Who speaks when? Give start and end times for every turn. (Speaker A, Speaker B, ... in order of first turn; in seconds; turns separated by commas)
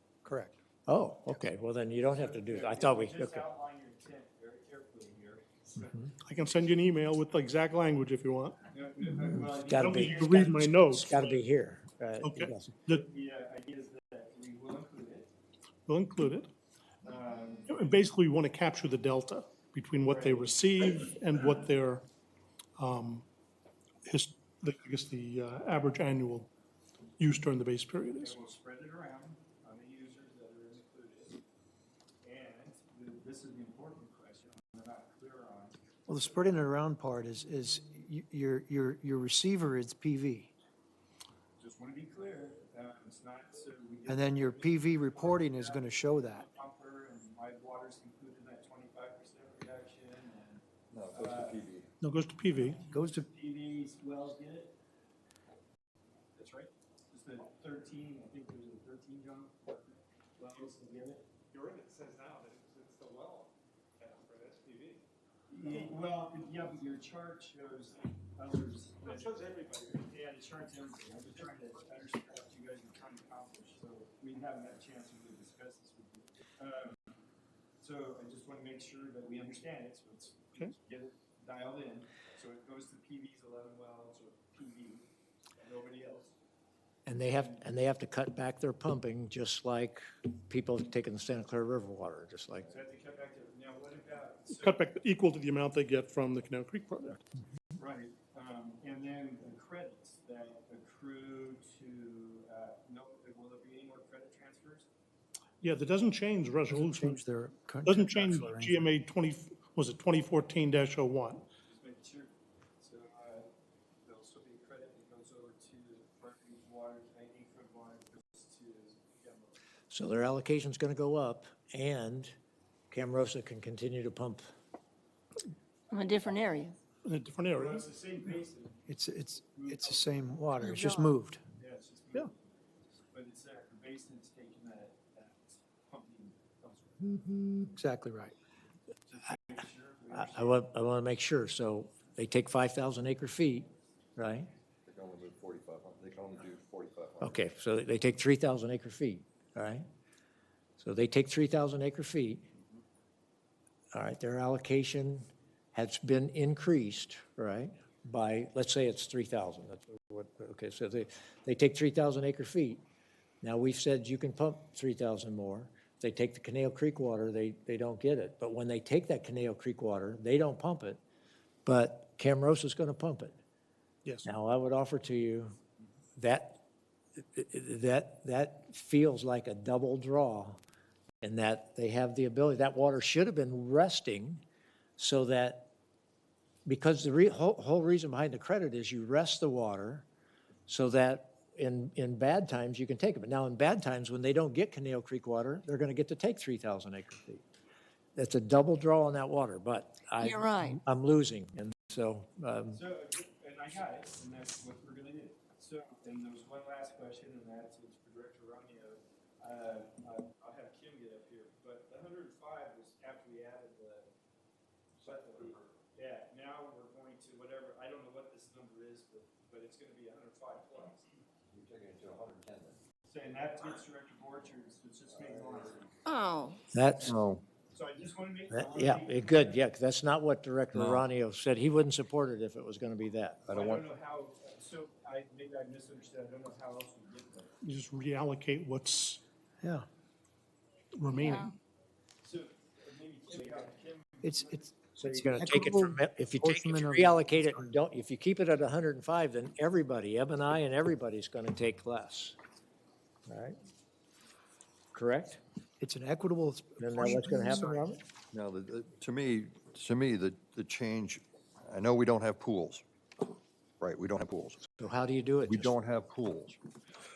Speaker A: 0.2-0.6, Speaker B: 0.9-3.4, Speaker C: 2.2-6.1, Speaker D: 6.3-8.6, Speaker C: 8.7-10.6, Speaker B: 9.5-12.7, Speaker D: 9.7-11.3, Speaker D: 12.2-13.0, Speaker C: 12.9-15.3, Speaker D: 15.9-16.5, Speaker C: 17.0-17.8, Speaker D: 17.7-22.1, Speaker C: 20.0-20.6, Speaker D: 22.8-23.2, Speaker D: 24.1-26.5, Speaker D: 27.2-28.4, Speaker C: 28.2-31.4, Speaker C: 32.2-35.8, Speaker A: 36.1-40.5, Speaker C: 41.6-51.6, Speaker A: 44.1-46.5, Speaker E: 50.9-51.9, Speaker D: 52.0-52.8, Speaker C: 52.5-54.8, Speaker A: 52.9-53.3, Speaker C: 56.4-61.3, Speaker F: 61.5-65.0, Speaker C: 65.5-77.0, Speaker F: 69.3-70.0, Speaker C: 77.8-85.1, Speaker C: 85.6-86.3, Speaker B: 87.1-92.7, Speaker C: 92.7-94.8, Speaker D: 94.5-97.2, Speaker C: 97.8-104.9, Speaker D: 105.6-107.2, Speaker A: 106.7-108.9, Speaker D: 107.8-111.4, Speaker C: 111.7-113.5, Speaker C: 114.0-119.6, Speaker B: 119.9-122.3, Speaker B: 122.9-124.5, Speaker G: 125.9-126.8, Speaker D: 127.0-127.9, Speaker C: 127.5-128.9, Speaker A: 128.9-131.4, Speaker C: 129.4-130.1, Speaker G: 130.7-131.1, Speaker C: 131.6-137.1, Speaker A: 137.2-138.3, Speaker C: 139.1-140.6, Speaker B: 140.1-144.5, Speaker E: 144.9-147.4, Speaker B: 147.2-149.9, Speaker B: 150.8-152.5, Speaker B: 153.9-162.8, Speaker B: 163.4-171.0, Speaker B: 171.7-173.4, Speaker B: 174.2-175.5, Speaker B: 176.2-176.6, Speaker B: 177.3-180.6, Speaker B: 181.2-184.4, Speaker B: 185.0-185.7, Speaker B: 186.7-190.1, Speaker B: 190.7-197.4, Speaker B: 198.2-202.8, Speaker G: 200.2-200.8, Speaker C: 202.7-214.1, Speaker E: 215.0-215.7, Speaker C: 215.0-221.1, Speaker E: 221.5-222.8, Speaker C: 223.1-226.0, Speaker G: 226.1-226.6, Speaker B: 226.7-227.2, Speaker E: 227.0-227.4, Speaker C: 227.7-229.6, Speaker B: 228.5-233.4, Speaker E: 230.7-231.1, Speaker E: 233.5-233.9, Speaker C: 233.5-237.5, Speaker D: 237.6-239.2, Speaker D: 240.9-241.5, Speaker G: 241.2-241.5, Speaker C: 242.2-245.0, Speaker A: 244.2-247.7, Speaker B: 245.0-252.4, Speaker B: 253.3-253.6, Speaker B: 254.9-255.4, Speaker A: 255.8-257.8, Speaker B: 256.8-258.0, Speaker E: 258.3-262.8, Speaker E: 263.8-264.6, Speaker B: 264.8-265.8, Speaker E: 265.5-266.6